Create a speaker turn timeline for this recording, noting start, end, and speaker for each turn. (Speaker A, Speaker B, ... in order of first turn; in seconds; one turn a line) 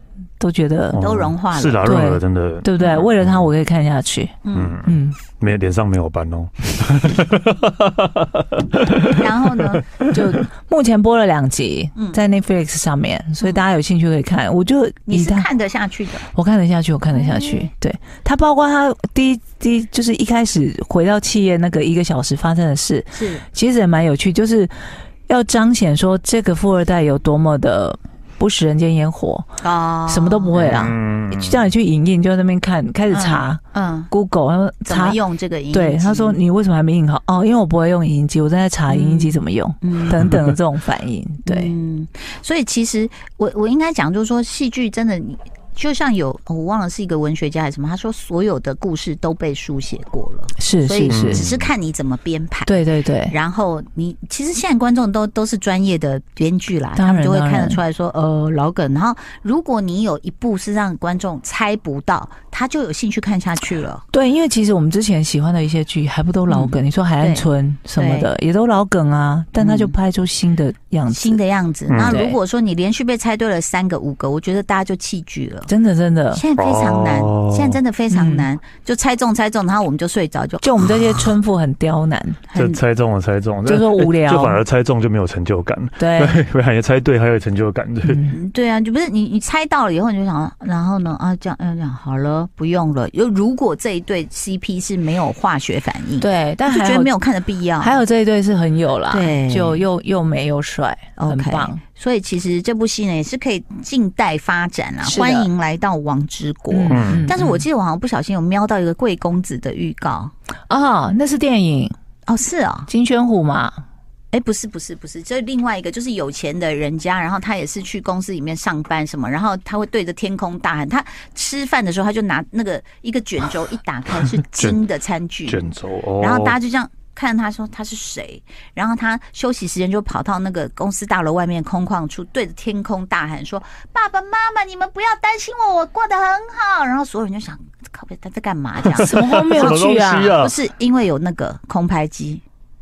Speaker A: 0.4-1.0
Speaker B: 0.9-3.5
Speaker C: 1.0-1.9
Speaker A: 1.8-5.2
Speaker C: 4.4-4.8
Speaker B: 4.5-10.4
Speaker C: 9.2-10.0
Speaker A: 10.1-15.5
Speaker C: 11.9-12.2
Speaker C: 15.1-16.3
Speaker A: 16.3-29.5
Speaker C: 17.1-17.7
Speaker C: 23.1-23.4
Speaker C: 29.6-30.7
Speaker A: 30.1-35.2
Speaker B: 30.6-31.7
Speaker C: 33.1-34.1
Speaker C: 34.9-36.4
Speaker A: 35.7-41.7
Speaker C: 38.9-40.2
Speaker B: 40.2-40.5
Speaker C: 41.4-52.8
Speaker A: 50.6-51.4
Speaker B: 51.1-51.6
Speaker A: 52.6-53.3
Speaker C: 53.3-64.0
Speaker A: 57.0-57.8
Speaker A: 64.1-71.4
Speaker C: 66.5-68.3
Speaker C: 69.6-69.9
Speaker C: 71.1-75.7
Speaker B: 71.9-72.2
Speaker A: 72.0-72.4
Speaker A: 75.7-76.4
Speaker C: 76.3-81.2
Speaker B: 76.6-77.8
Speaker A: 78.1-78.5
Speaker A: 80.6-82.4
Speaker C: 82.5-82.8
Speaker B: 82.5-88.2
Speaker A: 83.7-84.6
Speaker A: 86.0-86.4
Speaker A: 88.0-88.3
Speaker C: 88.3-98.0
Speaker A: 96.2-97.1
Speaker A: 97.8-101.8
Speaker C: 99.1-99.8
Speaker C: 101.2-110.3
Speaker A: 105.0-105.5
Speaker A: 106.7-107.5
Speaker B: 106.9-107.3
Speaker A: 110.7-111.9
Speaker C: 112.3-112.9
Speaker A: 112.9-113.8
Speaker C: 114.3-125.6
Speaker B: 125.5-126.5
Speaker C: 126.2-139.8
Speaker B: 138.9-140.6
Speaker A: 138.9-140.4
Speaker C: 140.4-142.4